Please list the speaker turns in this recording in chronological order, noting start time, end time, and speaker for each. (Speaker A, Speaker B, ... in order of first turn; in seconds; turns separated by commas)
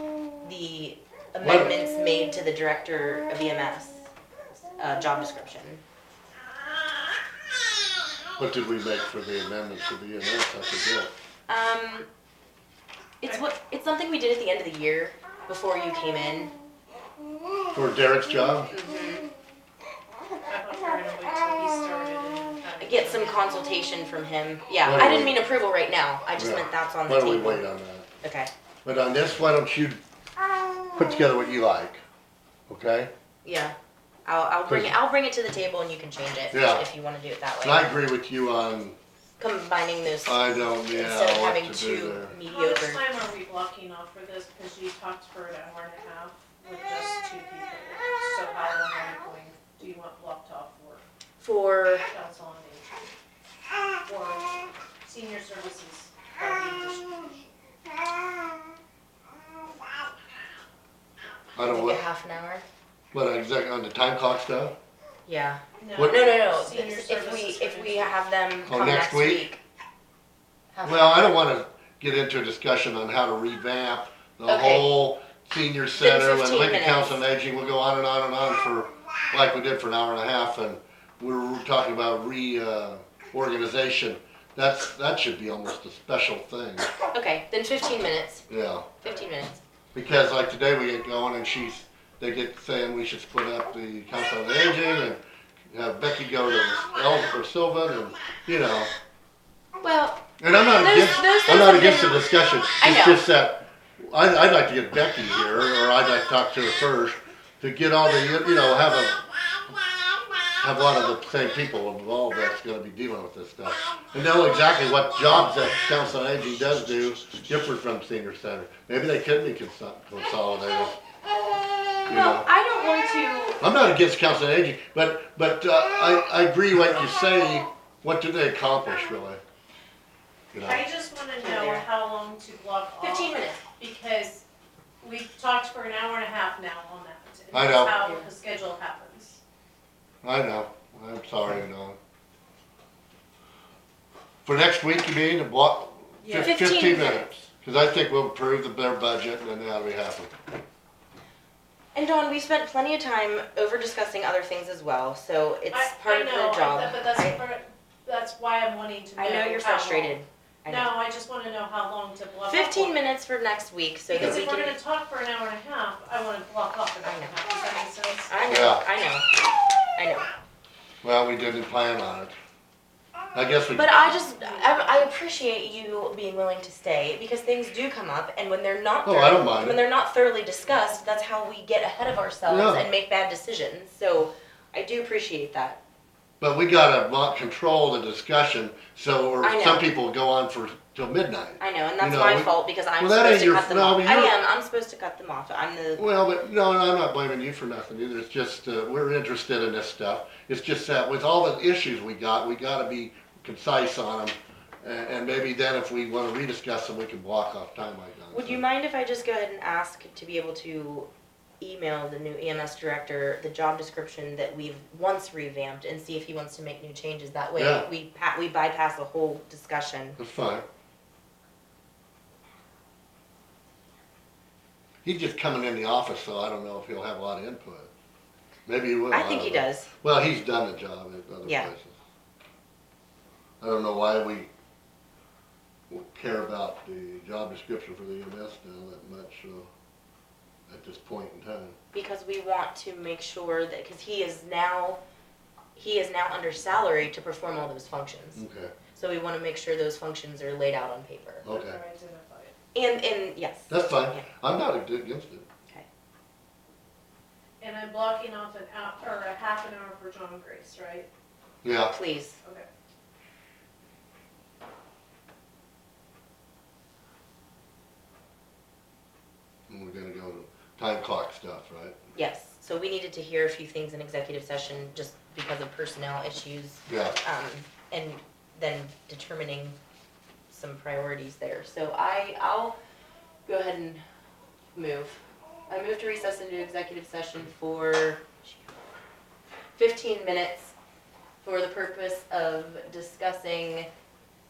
Speaker A: 0.4-4.1, Speaker B: 1.4-1.7, Speaker A: 4.7-5.8, Speaker B: 8.4-11.1, Speaker A: 11.5-12.1, Speaker A: 13.2-16.5, Speaker B: 17.7-18.7, Speaker A: 18.7-19.3, Speaker C: 20.5-23.6, Speaker A: 22.8-27.6, Speaker B: 24.8-25.4, Speaker B: 26.4-28.1, Speaker A: 28.2-28.5, Speaker B: 28.8-30.0, Speaker B: 30.9-32.0, Speaker B: 32.7-33.1, Speaker A: 33.4-33.7, Speaker A: 34.2-37.9, Speaker B: 34.7-34.9, Speaker B: 36.5-36.9, Speaker B: 37.6-39.0, Speaker A: 39.4-43.0, Speaker B: 40.2-42.3, Speaker C: 42.5-51.0, Speaker A: 51.4-52.0, Speaker C: 52.1-53.0, Speaker C: 54.0-57.2, Speaker B: 61.5-62.0, Speaker A: 61.6-62.6, Speaker B: 63.1-64.7, Speaker A: 65.2-69.6, Speaker C: 65.8-68.2, Speaker B: 66.0-66.3, Speaker B: 68.7-69.5, Speaker A: 70.7-71.2, Speaker B: 70.8-86.9, Speaker A: 74.5-74.9, Speaker A: 75.9-77.2, Speaker A: 87.1-88.5, Speaker B: 88.5-88.9, Speaker A: 89.0-89.6, Speaker B: 89.9-95.2, Speaker B: 95.7-98.9, Speaker A: 99.8-103.2, Speaker B: 100.4-109.2, Speaker B: 110.6-121.0, Speaker A: 122.0-123.6, Speaker B: 122.0-122.5, Speaker B: 123.6-129.4, Speaker B: 130.5-130.8, Speaker C: 130.6-134.4, Speaker A: 131.4-131.8, Speaker A: 133.0-133.6, Speaker C: 135.0-139.4, Speaker B: 137.5-138.0, Speaker A: 138.0-138.2, Speaker B: 140.2-142.0, Speaker B: 144.4-150.3, Speaker A: 146.2-147.3, Speaker A: 151.9-157.4, Speaker C: 155.7-163.0, Speaker A: 159.2-160.9, Speaker A: 162.5-164.8, Speaker C: 164.1-168.3, Speaker A: 167.0-167.4, Speaker A: 168.3-169.3, Speaker B: 168.5-168.8, Speaker A: 169.9-170.3, Speaker B: 171.0-172.3, Speaker B: 173.3-174.1, Speaker A: 173.7-185.8, Speaker C: 174.0-175.1, Speaker B: 179.0-179.8, Speaker B: 182.5-182.9, Speaker B: 186.4-194.3, Speaker A: 189.4-189.9, Speaker A: 191.6-196.0, Speaker B: 196.0-208.6, Speaker A: 208.3-211.1, Speaker A: 211.6-220.2, Speaker B: 217.6-217.9, Speaker B: 220.2-220.6, Speaker B: 225.0-227.9, Speaker B: 228.7-231.9, Speaker A: 229.1-229.9, Speaker A: 231.4-231.7, Speaker B: 233.6-234.5, Speaker B: 235.9-239.7, Speaker B: 240.7-241.7, Speaker A: 241.9-245.0, Speaker A: 245.7-248.4, Speaker B: 248.3-248.7, Speaker A: 248.9-251.4, Speaker B: 251.4-251.8, Speaker C: 251.4-252.5, Speaker A: 252.7-254.2, Speaker B: 253.7-255.4, Speaker C: 257.6-261.1, Speaker B: 261.6-261.9, Speaker A: 261.9-262.4, Speaker B: 269.7-272.0, Speaker A: 272.1-279.8, Speaker B: 276.9-277.1, Speaker A: 280.5-282.7, Speaker A: 283.4-284.0, Speaker A: 284.7-288.5, Speaker A: 289.8-290.7, Speaker A: 291.4-293.9